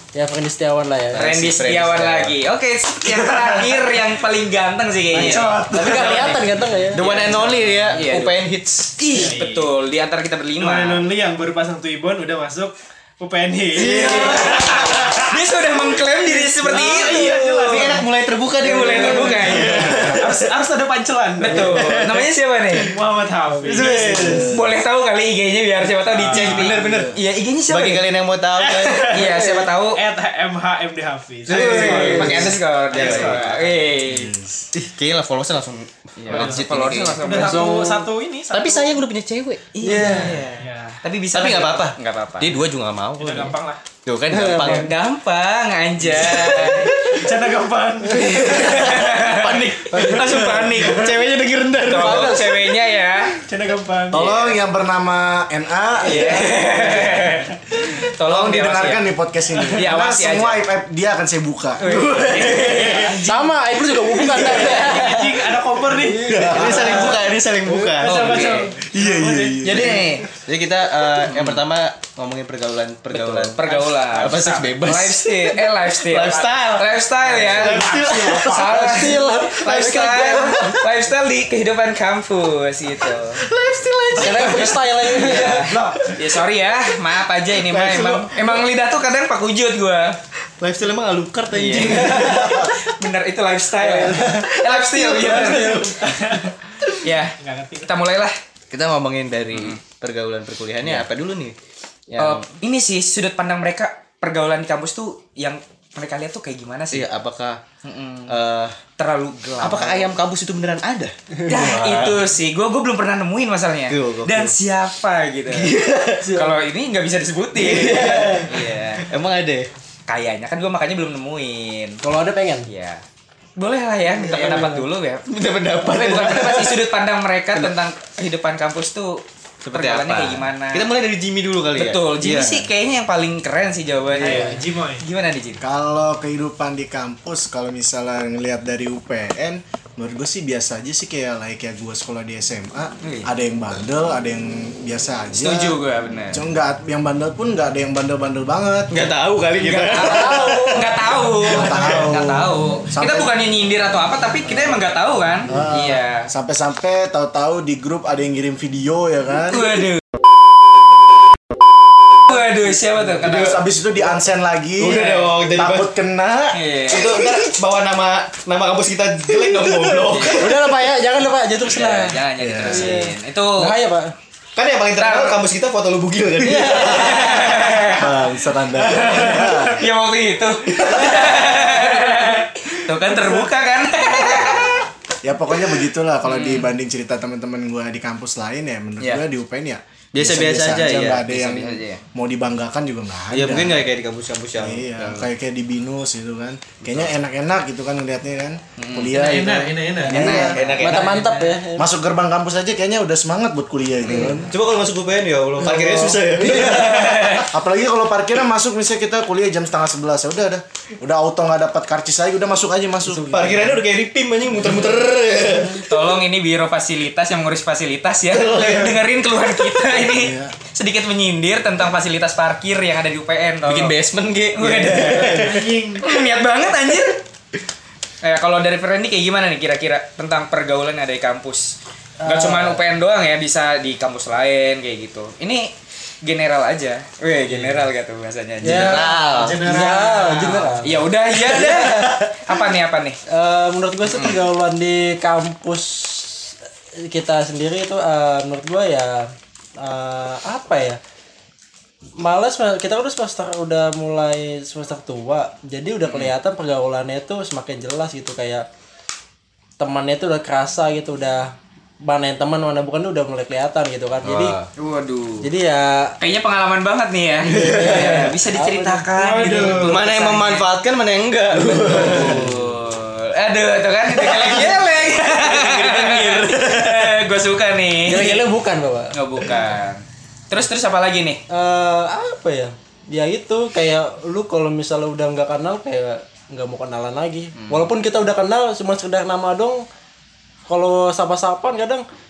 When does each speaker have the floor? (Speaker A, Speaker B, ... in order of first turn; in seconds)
Speaker A: 0.1-1.3, 5.2-7.1, 37.3-38.1, 39.8-40.5, 44.3-44.9, 49.9-50.8, 52.0-52.4, 63.2-67.9, 78.5-80.2, 84.2-85.7, 91.9-92.7, 93.8-94.6, 95.2-96.0, 116.2-116.6, 118.0-118.3, 122.0-122.7, 124.3-124.8, 134.2-134.5, 150.0-150.8, 170.2-174.1, 200.8-201.9, 206.4-207.0, 213.1-213.8, 232.2-232.8, 237.5-237.8, 238.6-242.2, 243.3-251.0, 252.2-258.7, 259.8-264.6, 265.4-266.2, 267.5-269.1, 271.5-272.6, 278.1-279.1, 281.5-289.9, 290.7-292.1
Speaker B: 1.1-2.4, 3.0-3.9, 5.2-6.4, 6.9-9.0, 13.7-15.4, 16.6-20.5, 21.5-22.3, 23.6-24.6, 26.3-29.6, 31.5-33.5, 34.7-37.5, 38.5-40.5, 41.3-45.0, 46.0-47.0, 48.2-52.6, 54.2-54.5, 61.9-63.2, 66.4-68.6, 69.6-80.8, 83.4-84.8, 85.7-86.1, 87.5-88.7, 90.6-92.7, 94.5-95.8, 98.7-101.6, 102.1-102.5, 106.9-107.6, 108.3-108.8, 109.6-112.2, 113.9-114.5, 115.5-116.4, 117.5-119.7, 124.2-126.9, 129.6-132.7, 148.9-152.1, 163.2-163.6, 164.8-165.9, 166.9-170.6, 174.6-177.9, 190.1-191.2, 193.3-195.3, 200.1-201.3, 204.4-207.4, 213.3-215.9, 218.3-219.0, 223.6-225.8, 238.6-239.7, 264.2-264.7, 267.4-268.3, 269.7-272.6, 274.1-277.2
Speaker C: 1.1-8.4, 9.0-11.0, 13.8-18.1, 18.6-20.2, 21.4-22.9, 24.1-28.1, 29.0-30.0, 31.5-34.3, 36.2-37.8, 39.7-42.6, 44.6-47.0, 48.4-51.1, 51.8-53.4, 56.0-59.1, 59.7-60.7, 61.8-63.3, 64.2-65.1, 68.0-68.7, 69.7-70.3, 71.2-71.6, 73.1-83.4, 84.3-90.2, 91.5-95.9, 97.0-98.3, 99.5-99.8, 102.2-107.1, 107.8-108.4, 109.0-110.1, 111.5-115.7, 116.3-119.1, 120.1-122.0, 122.7-123.0, 123.6-125.2, 125.8-130.9, 131.8-135.6, 143.0-143.3, 145.3-146.4, 149.6-156.3, 159.5-160.0, 162.3-163.6, 164.9-165.3, 166.5-167.3, 170.1-170.4, 171.7-173.8, 175.0-175.4, 176.6-178.1, 178.8-184.8, 186.2-186.7, 191.2-192.0, 198.8-199.2, 200.1-201.5, 204.1-204.4, 206.5-207.5, 215.9-223.9, 224.5-227.2, 228.2-235.7, 236.2-239.1, 240.8-243.2, 244.1-244.4, 264.8-265.5, 266.2-270.7, 271.9-278.4, 279.1-281.4, 287.6-287.9
Speaker D: 5.1-6.3, 7.1-7.7, 9.1-9.7, 10.6-15.4, 16.2-18.1, 18.6-22.0, 22.8-24.6, 26.1-27.1, 28.6-34.0, 36.3-39.0, 40.5-41.0, 43.2-43.9, 46.3-48.9, 50.3-50.7, 53.4-54.3, 57.0-57.4, 62.6-63.6, 64.3-67.1, 67.8-69.7, 73.6-74.6, 77.3-78.4, 95.1-97.9, 134.2-135.1, 199.1-200.5, 225.3-226.1, 239.5-240.5, 269.1-270.1
Speaker E: 34.1-34.7, 54.1-57.3, 58.2-62.5, 66.3-67.2, 68.9-70.2, 77.9-78.5, 135.6-145.8, 146.3-149.1, 151.4-153.3, 155.5-159.8, 163.2-166.7, 172.4-173.0, 177.9-179.9, 184.2-184.6, 185.2-193.9, 194.6-200.6, 201.8-204.5, 205.6-213.6, 220.0-220.5, 239.3-240.7